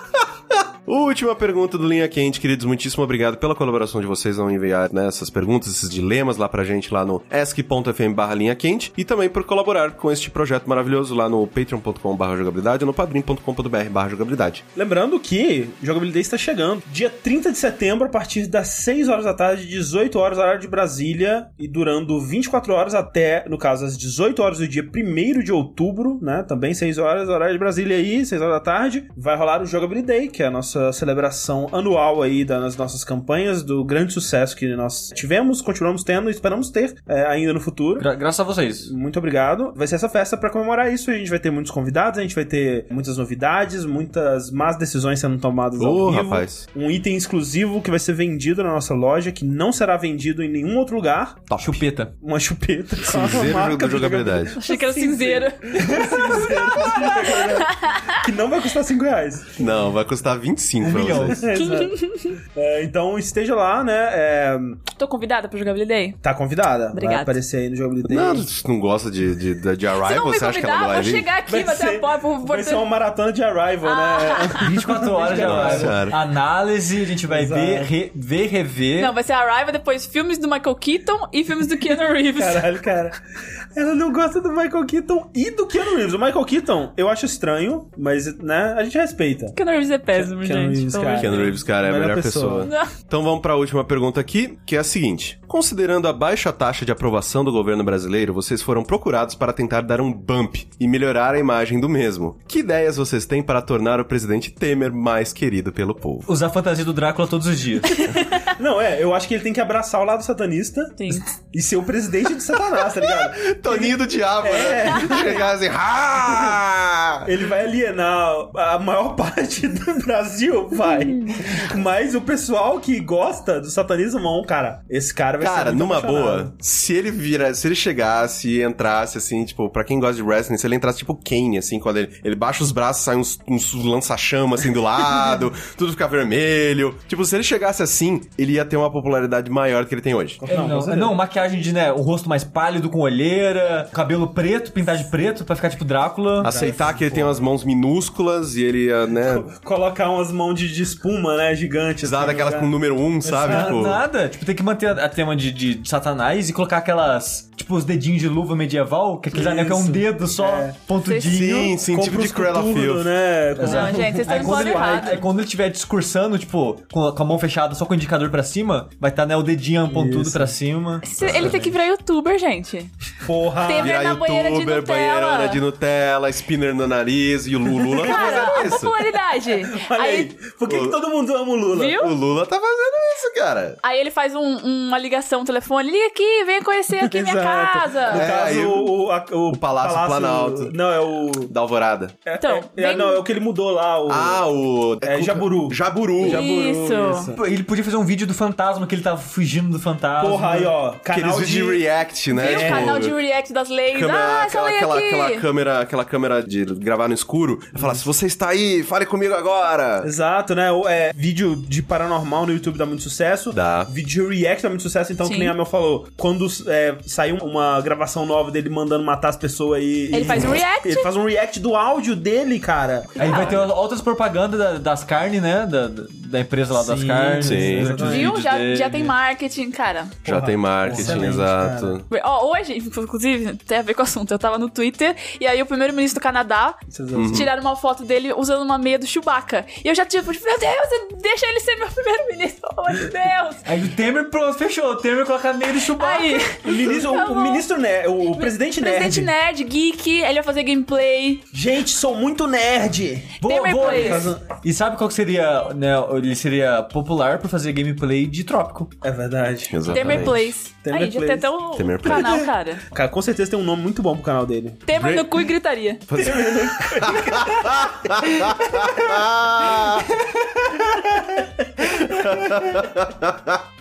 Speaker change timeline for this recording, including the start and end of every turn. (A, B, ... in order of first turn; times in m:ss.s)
0:00.5-0:14.6 A
0:14.8-0:38.1 B
0:38.0-0:38.9 C
0:38.8-0:51.5 B
0:45.8-0:46.6 A
0:51.5-0:51.8 A
0:51.6-0:52.1 C
0:52.2-0:59.6 B
0:53.0-0:54.6 A
0:54.6-0:58.2 D
0:59.6-1:01.5 A
1:00.8-1:01.5 C
1:01.2-1:04.8 B
1:01.6-1:02.4 D
1:05.0-1:06.2 D
1:06.2-1:08.5 B
1:06.9-1:07.3 D
1:08.1-1:11.3 A
1:10.0-1:12.9 D
1:11.5-1:16.1 B
1:13.8-1:14.8 D
1:14.6-1:19.2 C
1:15.4-1:16.2 A
1:17.3-1:17.9 B
1:19.0-1:22.7 D
1:22.3-1:23.2 B
1:23.8-1:29.6 B
1:29.6-1:31.6 D
1:30.1-1:32.7 B
1:31.1-1:46.3 A
1:32.6-1:32.9 D
1:46.3-1:48.1 C
1:48.0-1:48.4 D
1:48.5-1:55.5 B
1:51.0-1:51.3 D
1:53.0-1:57.3 A
1:57.2-2:06.5 B
2:00.8-2:01.5 D
2:05.4-2:20.4 A
2:20.4-2:21.2 B
2:20.4-2:26.6 C
2:26.4-2:29.5 A
2:26.4-2:27.4 B
2:29.2-2:34.0 B
2:32.0-2:34.0 A
2:33.4-2:41.8 C
2:39.3-2:40.8 B
2:41.0-2:41.6 D
2:41.3-2:43.1 A
2:41.9-2:45.3 B
2:43.6-2:51.6 C
2:43.6-2:45.2 D
2:49.9-2:50.6 B
2:51.0-2:52.9 D
2:51.2-2:51.7 A
2:51.3-2:51.6 B
2:53.2-2:54.0 B
2:53.6-2:55.6 D
2:53.8-2:59.0 A
2:57.9-2:58.7 B
2:58.0-3:00.3 D
2:59.4-3:02.1 B
3:00.7-3:01.0 A
3:01.7-3:02.1 D
3:02.0-3:03.8 A
3:03.8-3:08.3 D
3:07.0-3:11.5 B
3:08.1-3:08.9 A
3:09.5-3:10.8 A
3:11.4-3:12.2 A
3:12.3-3:14.5 B
3:12.4-3:13.2 D
3:14.1-3:16.4 A
3:15.0-3:17.4 B
3:16.2-3:17.3 D
3:17.3-3:20.7 C
3:20.2-3:21.9 B
3:21.1-3:23.2 A
3:22.3-3:25.4 D
3:22.4-3:23.0 B
3:23.9-3:30.1 A
3:27.8-3:28.0 B
3:30.0-3:43.6 B
3:33.5-3:33.9 A
3:35.2-3:35.6 D
3:40.1-3:41.1 D
3:43.2-3:43.7 D
3:43.2-3:49.2 C
3:46.7-3:48.4 B
3:47.4-3:48.1 A
3:48.0-3:50.2 D
3:50.2-3:52.0 A
3:50.2-3:52.0 B
3:50.9-3:51.2 C
3:52.1-4:03.6 D
3:56.9-3:57.5 B
3:57.2-3:57.5 A
4:03.6-4:06.5 C
4:06.0-4:07.6 D
4:06.6-4:09.3 B
4:08.4-4:11.4 D
4:11.5-4:14.5 B
4:13.4-4:18.9 C
4:13.4-4:14.3 D
4:19.0-4:21.5 B
4:19.7-4:20.5 A
4:19.9-4:22.8 D
4:21.8-4:22.4 A
4:22.1-4:24.8 B
4:24.9-4:26.1 D
4:24.9-4:25.3 A
4:26.1-4:30.1 A
4:26.2-4:29.2 B
4:30.8-4:32.8 B
4:31.9-4:33.6 A